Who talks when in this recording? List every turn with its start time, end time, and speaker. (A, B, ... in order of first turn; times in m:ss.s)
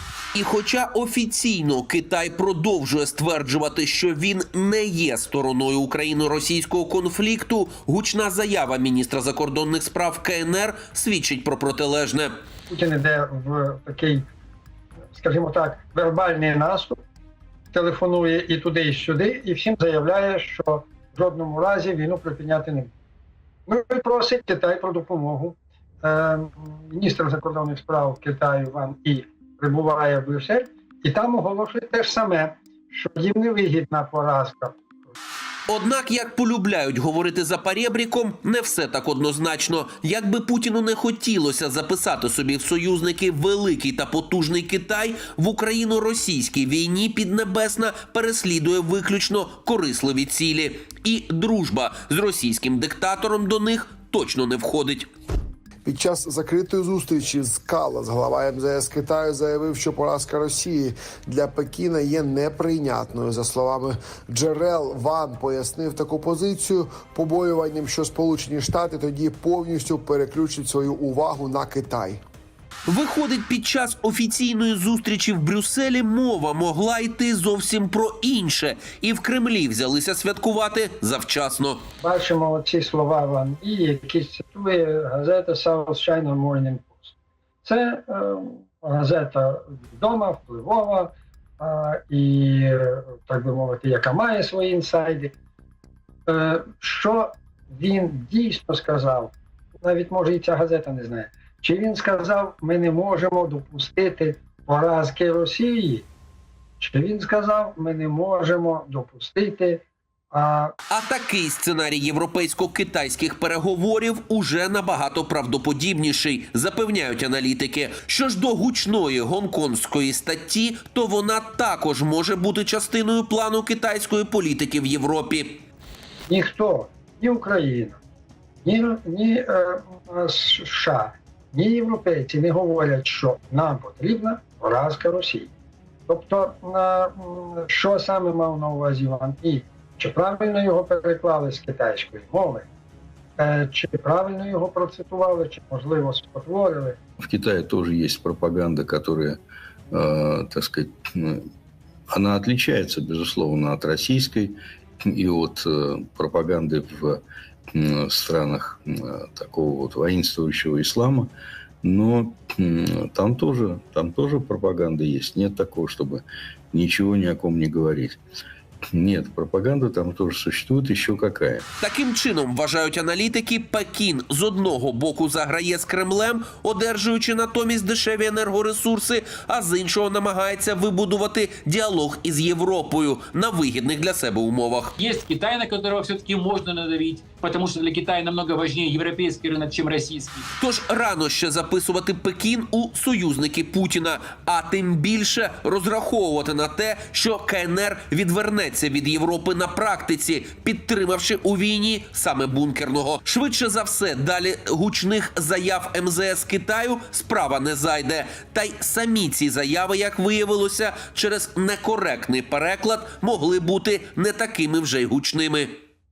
0:00.4-0:12.3 A
0:12.7-0:14.3 B
0:15.1-0:17.0 B
0:17.7-0:22.9 B
0:23.7-0:34.8 B
0:35.7-0:55.1 A
0:55.8-1:12.2 C
1:12.9-1:21.8 A
1:22.0-1:27.1 B
1:27.6-1:35.3 B
1:36.3-1:46.1 B
1:46.8-1:50.7 B
1:50.9-2:05.6 A
2:06.3-2:08.0 B
2:08.6-2:15.5 B
2:16.1-2:22.7 B
2:23.4-2:27.0 B
2:27.2-2:29.4 D
2:29.9-2:31.5 D
2:32.1-2:48.2 D
2:48.9-2:51.6 D
2:51.8-3:04.9 A
3:05.0-3:10.4 E
3:10.6-3:35.7 A